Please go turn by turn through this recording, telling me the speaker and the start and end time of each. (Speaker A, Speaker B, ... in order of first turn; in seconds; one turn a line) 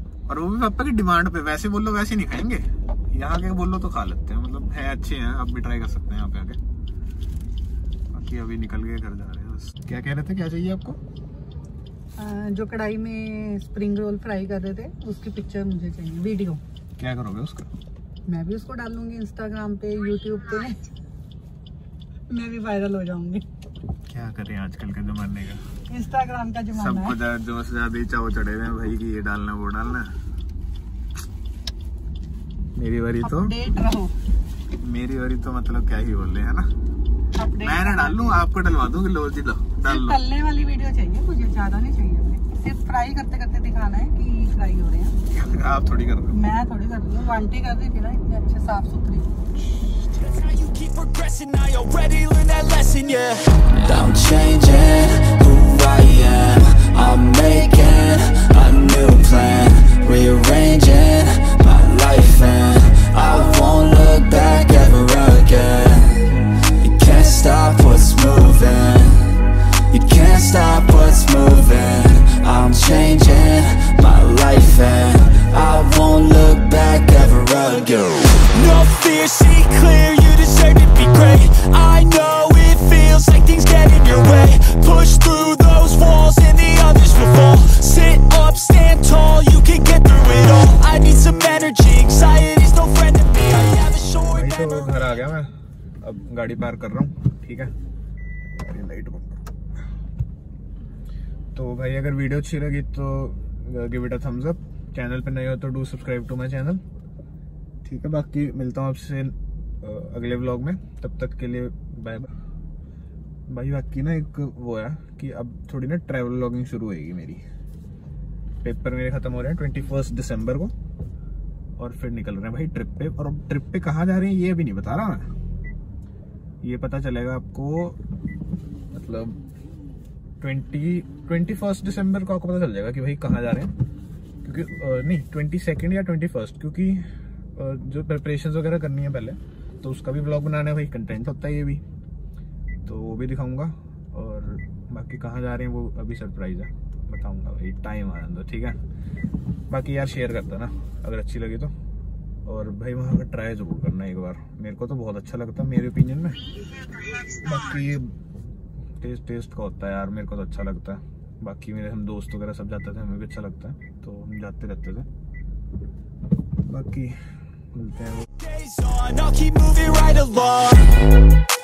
Speaker A: 0.3-6.6
Speaker A: 8.1-11.0
Speaker B: 12.2-16.6
Speaker A: 17.0-17.7
Speaker B: 18.3-20.9
Speaker B: 22.3-23.4
Speaker A: 24.1-25.6
Speaker B: 25.9-27.2
Speaker A: 26.7-30.1
Speaker A: 32.8-33.5
Speaker B: 33.2-34.1
Speaker A: 34.8-36.7
Speaker B: 37.4-38.4
Speaker A: 37.6-40.2
Speaker B: 39.9-45.1
Speaker A: 45.3-46.4
Speaker B: 46.3-49.3
Speaker C: 50.1-95.2
Speaker A: 94.3-95.5
Speaker A: 96.0-97.7
Speaker A: 98.5-99.4
Speaker A: 101.5-106.8
Speaker A: 107.8-112.3
Speaker A: 113.5-117.4
Speaker A: 118.6-120.7
Speaker A: 121.8-125.3
Speaker A: 126.6-128.0
Speaker A: 128.9-129.4
Speaker A: 130.4-133.7
Speaker A: 134.4-141.8
Speaker A: 142.8-148.8
Speaker A: 149.7-151.7
Speaker A: 152.4-156.4
Speaker A: 157.3-158.1
Speaker A: 159.0-165.1
Speaker A: 166.7-167.2
Speaker A: 167.7-168.3
Speaker C: 168.4-171.0